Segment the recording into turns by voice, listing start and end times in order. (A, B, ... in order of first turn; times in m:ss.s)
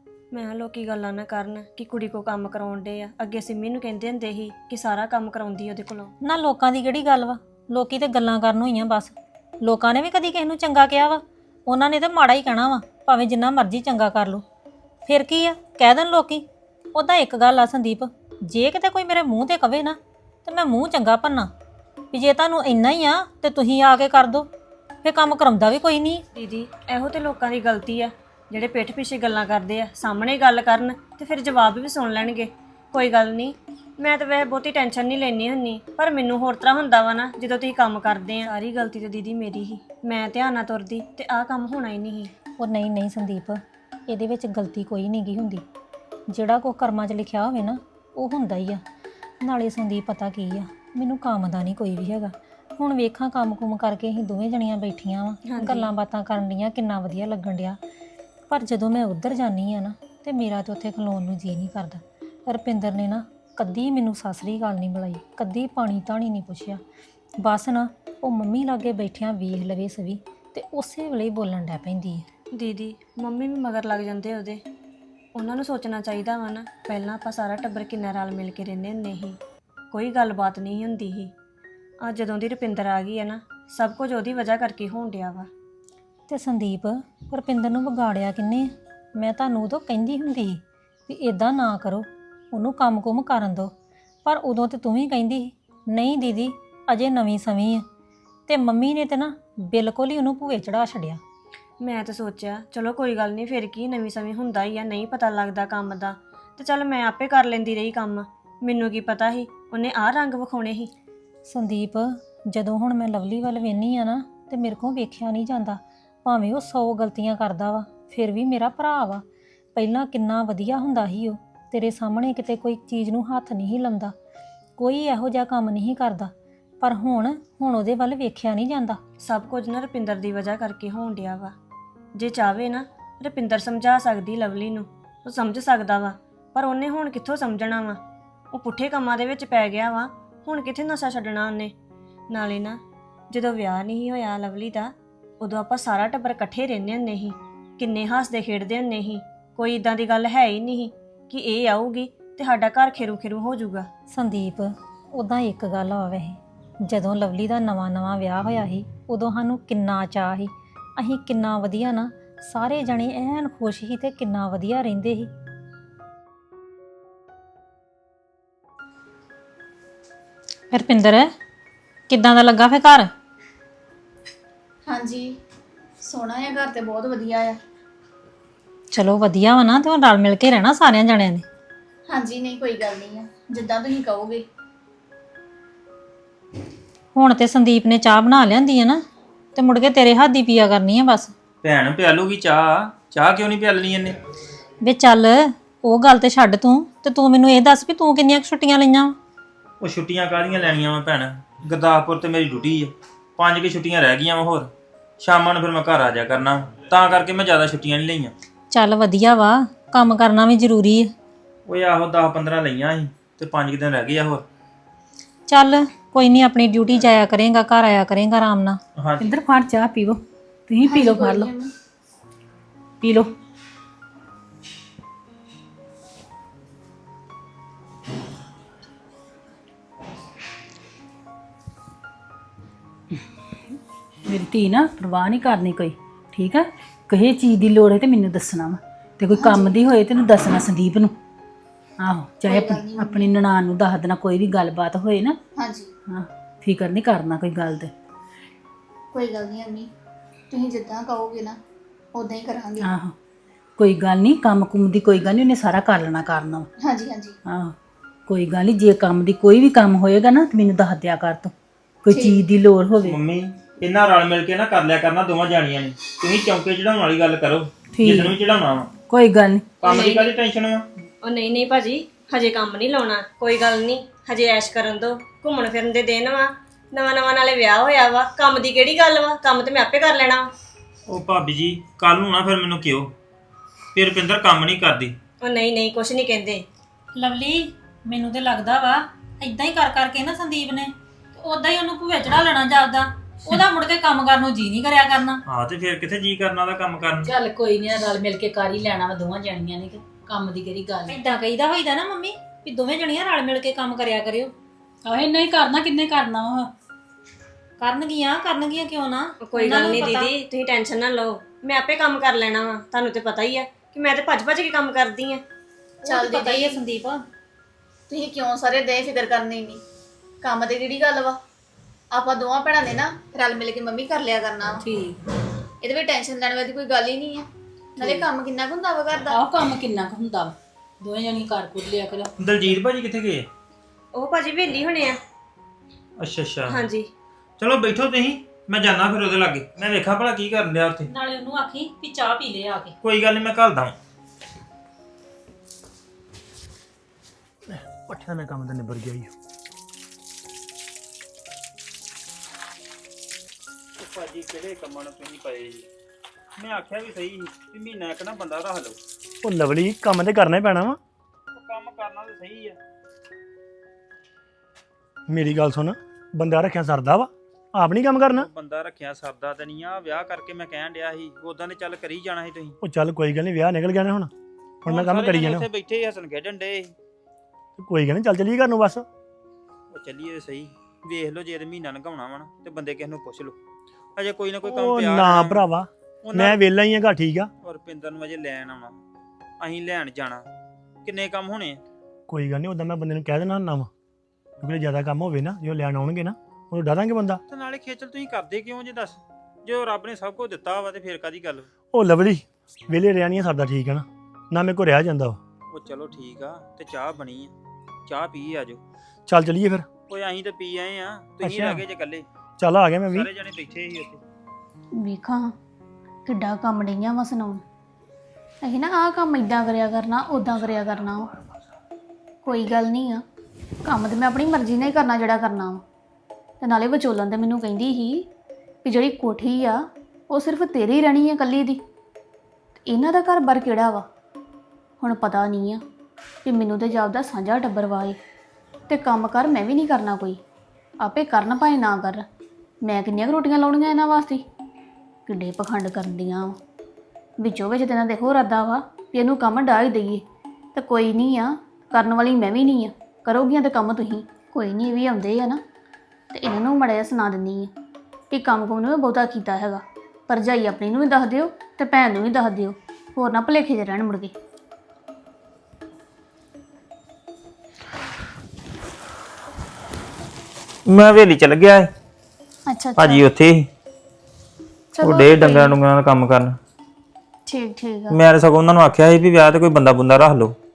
0:00.3-0:06.1 A
0:06.2-0:14.4 B
0:15.1-0:21.5 B
0:22.1-0:24.5 B
0:25.0-0:26.2 B
0:26.3-0:42.3 A
0:42.6-0:45.6 B
0:46.3-0:48.8 B
0:49.4-0:57.8 B
0:55.5-0:55.9 A
0:58.5-1:06.8 B
1:07.4-1:12.2 B
1:12.5-1:14.6 A
1:15.3-1:19.4 A
1:19.9-1:21.3 A
1:22.0-1:25.5 A
1:26.3-1:33.7 B
1:34.2-1:37.8 B
1:38.5-1:41.2 B
1:41.8-1:50.9 A
1:51.4-1:59.2 B
1:59.7-2:04.1 B
2:04.8-2:09.0 B
2:09.2-2:11.5 A
2:12.2-2:18.0 A
2:18.5-2:21.7 A
2:22.3-2:33.9 A
2:34.1-2:45.3 B
2:50.7-2:51.3 B
2:52.1-2:53.1 B
2:54.9-2:55.4 C
2:56.0-2:57.6 C
2:58.9-3:01.4 B
3:02.1-3:04.4 C
3:07.1-3:09.0 B
3:09.5-3:11.3 B
3:11.6-3:14.2 D
3:14.8-3:19.1 B
3:19.8-3:28.3 D
3:28.7-3:31.1 B
3:31.7-3:34.4 D
3:35.5-3:38.8 B
3:39.0-3:39.2 D
3:39.2-3:41.5 E
3:40.8-3:41.7 C
3:43.0-3:43.3 E
3:53.1-4:01.1 E
3:59.3-3:59.8 C
4:02.0-4:05.4 E
4:02.4-4:03.3 C
4:05.6-4:05.9 C
4:06.1-4:07.9 E
4:09.1-4:09.9 C
4:10.5-4:11.6 C
4:12.1-4:12.9 C
4:12.8-4:13.1 E
4:13.8-4:16.7 E
4:16.8-4:17.4 C
4:17.4-4:17.7 E
4:18.3-4:23.2 E
4:22.1-4:22.4 C
4:23.0-4:28.9 D
4:27.9-4:28.4 E
4:29.1-4:29.7 E
4:29.8-4:30.8 D
4:29.8-4:30.3 C
4:31.2-4:40.5 A
4:41.1-4:43.1 D
4:43.9-4:45.1 D
4:45.4-4:46.6 A
4:47.2-4:55.4 B
4:55.5-4:57.3 D
4:57.2-5:01.2 E
5:01.1-5:04.5 B
5:05.0-5:06.7 E
5:07.8-5:10.3 B
5:09.4-5:15.4 A
5:16.0-5:17.2 B
5:16.0-5:16.8 C
5:18.1-5:19.8 C
5:20.4-5:21.4 C
5:22.1-5:24.8 C
5:24.8-5:25.2 E
5:25.8-5:29.4 C
5:28.0-5:28.3 E
5:29.3-5:32.3 E
5:32.4-5:33.5 D
5:34.1-5:35.2 A
5:36.2-5:36.8 D
5:36.7-5:37.1 A
5:37.6-5:41.1 D
5:41.1-5:43.0 B
5:43.0-5:43.9 D
5:47.7-5:49.3 F
5:54.0-5:55.9 D
5:56.6-5:59.0 D
5:59.4-6:01.0 F
6:01.5-6:02.8 D
6:05.3-6:08.5 F
6:08.4-6:12.8 D
6:12.8-6:14.3 F
6:14.8-6:15.6 F
6:14.8-6:16.9 D
6:17.8-6:19.0 F
6:19.9-6:23.6 D
6:24.2-6:25.6 D
6:24.6-6:27.5 F
6:26.2-6:26.6 D
6:27.6-6:29.0 D
6:29.6-6:30.4 D
6:31.0-6:31.8 D
6:32.3-6:33.9 F
6:34.6-6:37.4 F
6:37.5-6:41.7 D
6:41.9-6:45.4 F
6:45.7-6:47.5 D
6:48.1-6:48.8 D
6:49.3-6:49.8 F
6:50.1-6:52.2 D
6:51.4-6:51.8 F
6:52.6-6:53.3 F
6:53.1-6:54.2 D
6:55.0-6:55.5 C
6:56.2-6:57.6 C
6:58.6-7:01.3 C
7:02.4-7:03.2 C
7:03.8-7:05.8 C
7:06.6-7:08.3 C
7:08.8-7:11.8 C
7:12.9-7:14.1 C
7:15.0-7:15.8 C
7:16.4-7:18.2 C
7:18.9-7:20.4 C
7:21.0-7:22.2 C
7:22.8-7:24.4 C
7:25.3-7:26.6 C
7:27.4-7:30.2 C
7:30.7-7:35.6 C
7:36.3-7:37.7 C
7:38.3-7:44.3 C
7:50.8-7:51.9 D
7:52.7-7:53.2 C
7:53.0-7:53.7 D
7:54.9-7:55.8 C
7:55.0-7:56.6 D
7:57.5-7:58.2 C
7:58.1-8:00.6 D